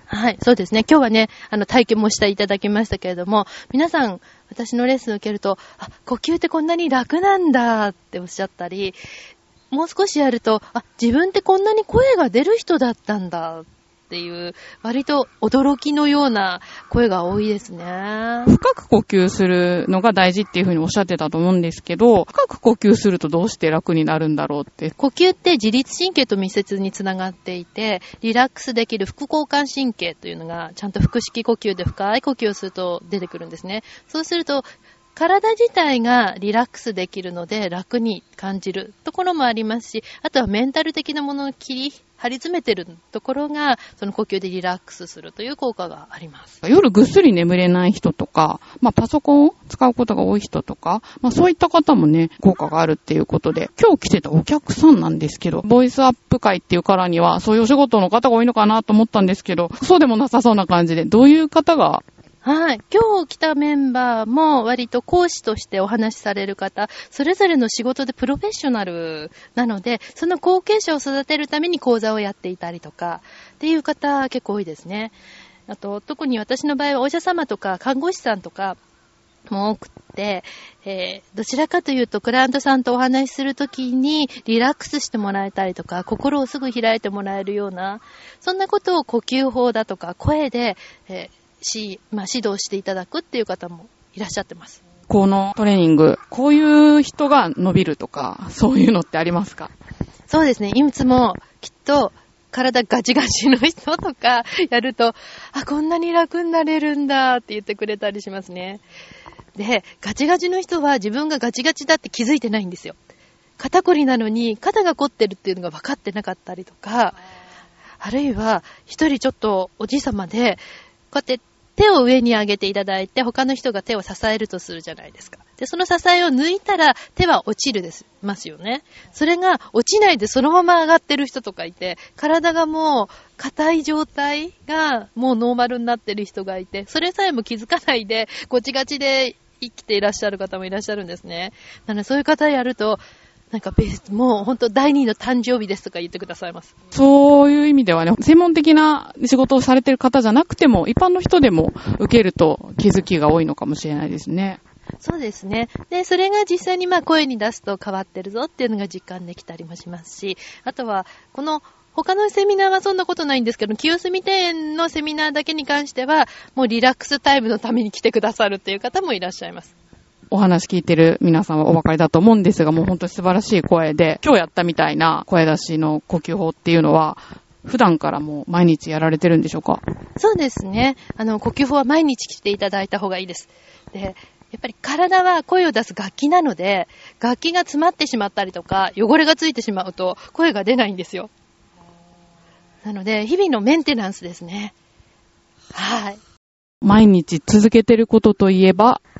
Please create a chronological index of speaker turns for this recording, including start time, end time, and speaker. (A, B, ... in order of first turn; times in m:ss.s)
0:00.1-0:09.0 A
0:09.7-0:18.5 A
0:18.5-0:24.9 B
0:25.0-0:46.5 A
0:46.6-1:02.0 B
1:02.4-1:15.2 A
1:15.7-1:18.8 A
1:19.5-1:34.8 A
1:35.1-1:39.7 B
1:40.3-1:48.8 A
1:49.6-1:53.0 A
1:53.6-1:57.2 A
1:58.0-2:26.7 A
2:26.9-2:34.6 B
2:35.0-2:49.7 A
2:50.3-2:59.8 B
3:00.2-3:11.3 A
3:12.8-3:14.8 A
3:15.7-3:16.2 A
3:16.8-3:19.0 B